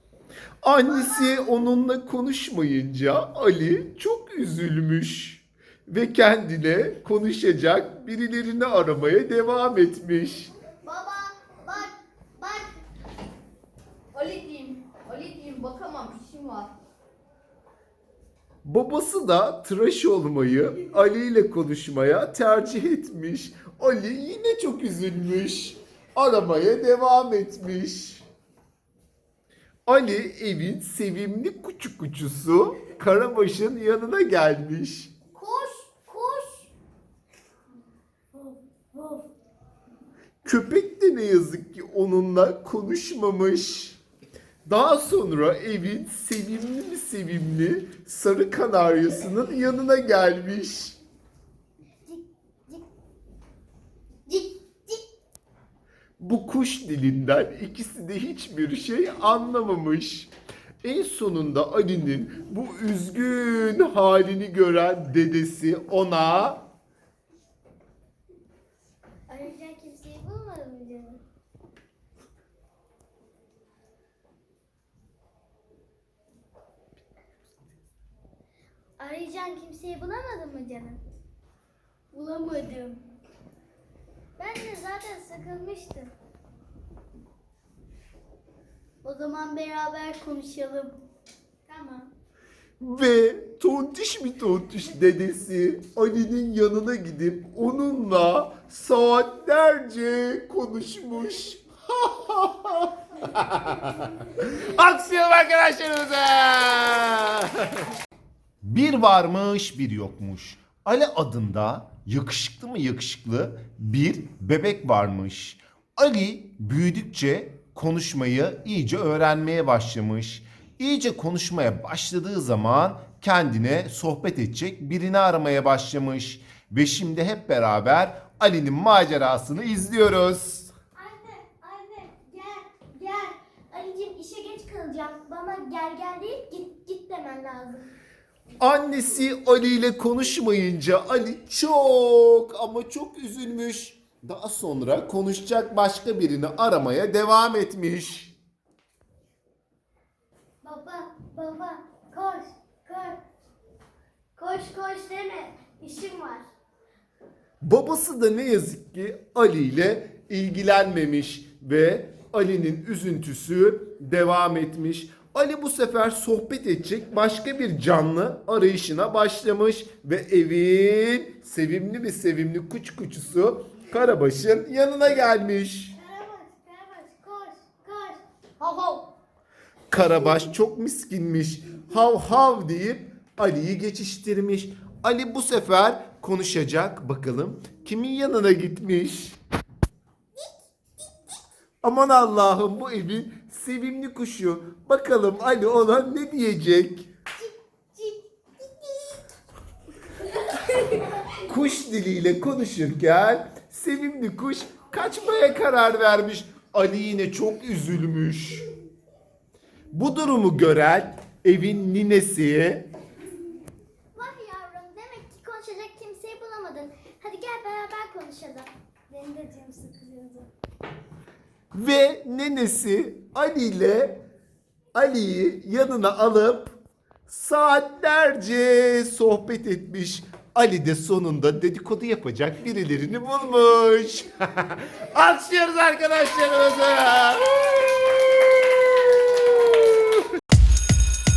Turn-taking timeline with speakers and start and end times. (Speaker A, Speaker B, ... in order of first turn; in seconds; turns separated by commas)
Speaker A: 0.6-10.5, Speaker B: 0.8-1.5, Speaker B: 10.8-12.7, Speaker C: 14.1-16.7, Speaker A: 18.6-28.2, Speaker A: 29.9-35.1, Speaker B: 35.3-36.7, Speaker B: 38.3-39.2, Speaker A: 40.4-44.0, Speaker A: 44.6-51.0, Speaker B: 52.0-52.8, Speaker B: 54.3-55.0, Speaker A: 56.2-60.3, Speaker A: 60.8-66.6, Speaker B: 69.3-71.2, Speaker B: 79.0-81.0, Speaker B: 82.1-83.0, Speaker B: 84.4-86.1, Speaker B: 89.0-91.0, Speaker B: 91.7-92.1, Speaker A: 92.8-107.9, Speaker A: 108.6-130.7, Speaker B: 130.9-137.9, Speaker A: 138.6-148.3, Speaker B: 150.6-153.2, Speaker B: 154.3-156.4, Speaker A: 157.6-175.9, Speaker B: 175.9-179.1, Speaker A: 179.9-189.4, Speaker A: 191.8-197.1, Speaker B: 197.4-199.2, Speaker B: 200.5-201.0, Speaker A: 201.3-208.7, Speaker A: 209.9-212.9, Speaker B: 214.1-220.5, Speaker A: 221.7-224.2, Speaker A: 224.9-226.8, Speaker A: 227.3-237.7